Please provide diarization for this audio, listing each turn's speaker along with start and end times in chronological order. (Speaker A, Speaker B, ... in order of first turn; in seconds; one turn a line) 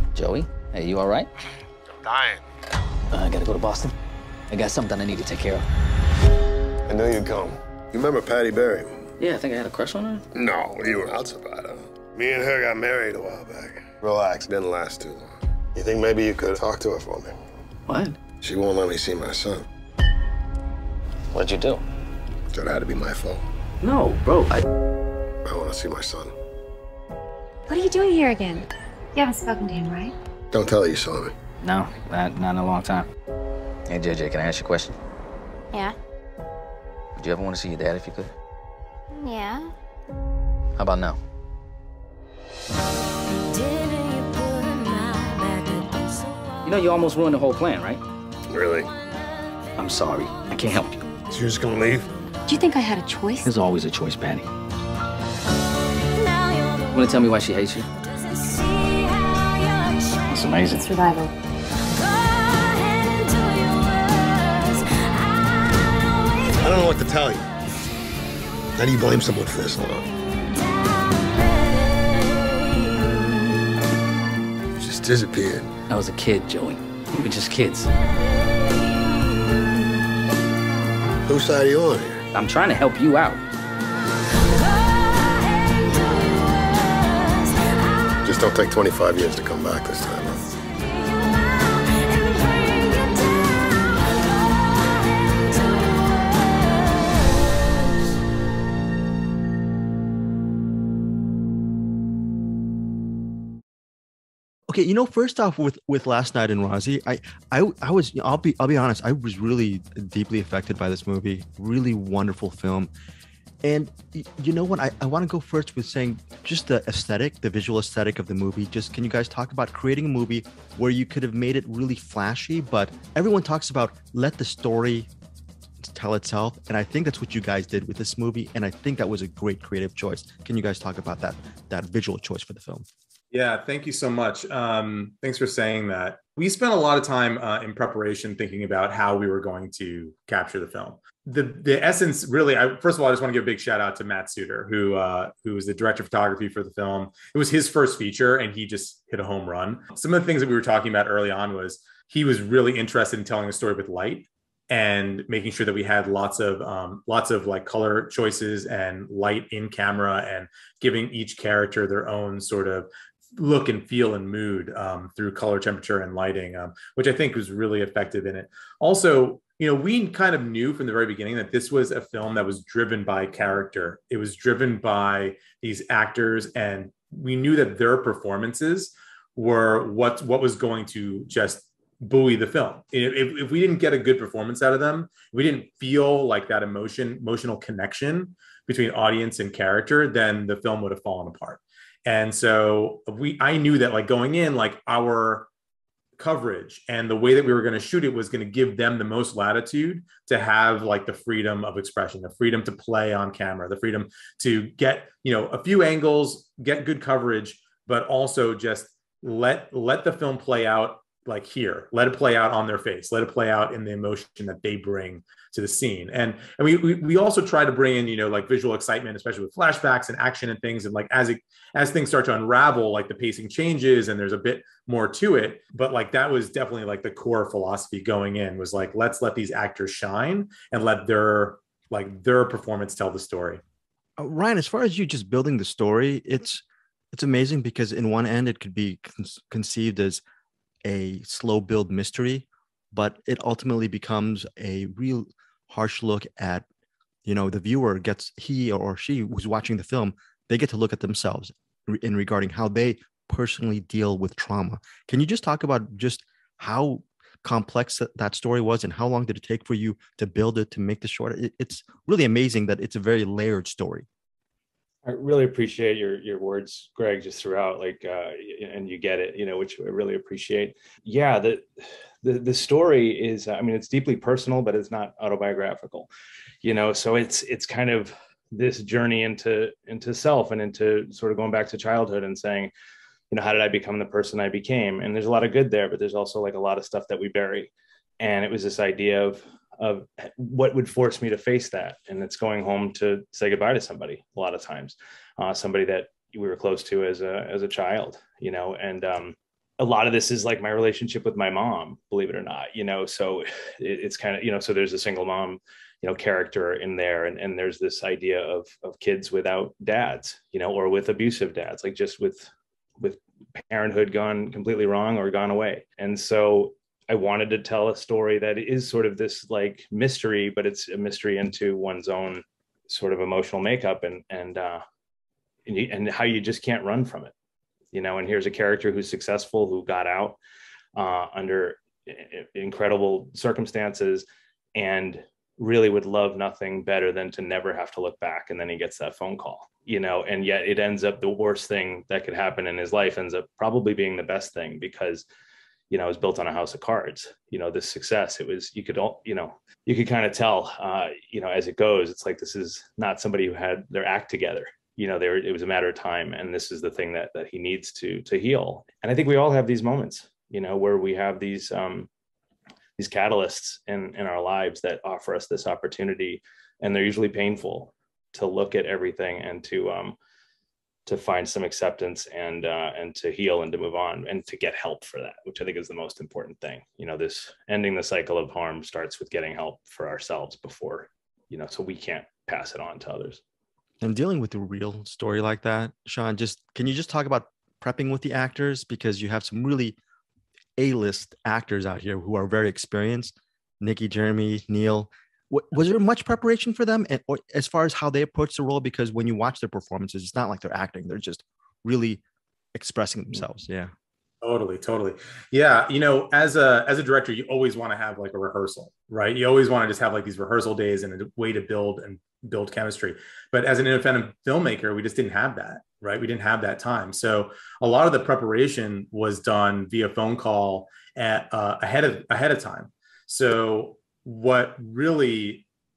Speaker A: 0.1-1.3
Speaker B: 1.9-2.4
Speaker A: 3.1-3.9
Speaker A: 4.5-5.7
Speaker B: 6.8-9.1
Speaker A: 9.2-10.2
Speaker B: 10.3-17.4
Speaker A: 17.9-18.2
Speaker B: 18.4-19.6
Speaker A: 21.3-21.8
Speaker B: 22.5-23.4
Speaker A: 23.8-24.6
Speaker B: 25.4-26.3
Speaker C: 27.7-30.1
Speaker B: 30.5-31.3
Speaker A: 31.6-33.1
Speaker A: 33.9-35.0
Speaker A: 37.1-38.3
Speaker A: 40.8-41.2
Speaker A: 46.6-48.0
Speaker B: 48.5-48.9
Speaker A: 49.8-51.0
Speaker B: 51.3-52.1
Speaker C: 52.5-53.5
Speaker A: 53.4-54.5
Speaker A: 56.9-57.9
Speaker A: 60.3-60.9
Speaker C: 60.8-61.3
Speaker B: 66.6-67.5
Speaker B: 68.8-70.1
Speaker B: 74.8-75.7
Speaker A: 75.9-77.9
Speaker B: 81.2-82.2
Speaker A: 82.3-83.4
Speaker B: 88.2-90.5
Speaker D: 104.7-112.9
Speaker D: 113.6-125.1
Speaker D: 125.8-132.8
Speaker E: 133.3-195.5
Speaker E: 196.2-233.6
Speaker D: 234.2-240.2
Speaker D: 240.8-246.6
Speaker D: 247.2-264.1
Speaker F: 265.0-276.1
Speaker F: 276.6-282.7
Speaker F: 283.3-312.5
Speaker F: 313.0-324.8
Speaker F: 325.6-327.3
Speaker F: 327.9-330.4
Speaker F: 330.9-334.2
Speaker F: 334.8-345.2
Speaker F: 345.9-362.1
Speaker F: 363.0-370.1
Speaker F: 371.1-383.4
Speaker D: 384.0-389.9
Speaker D: 390.8-402.2
Speaker D: 402.7-403.9
Speaker E: 404.4-425.6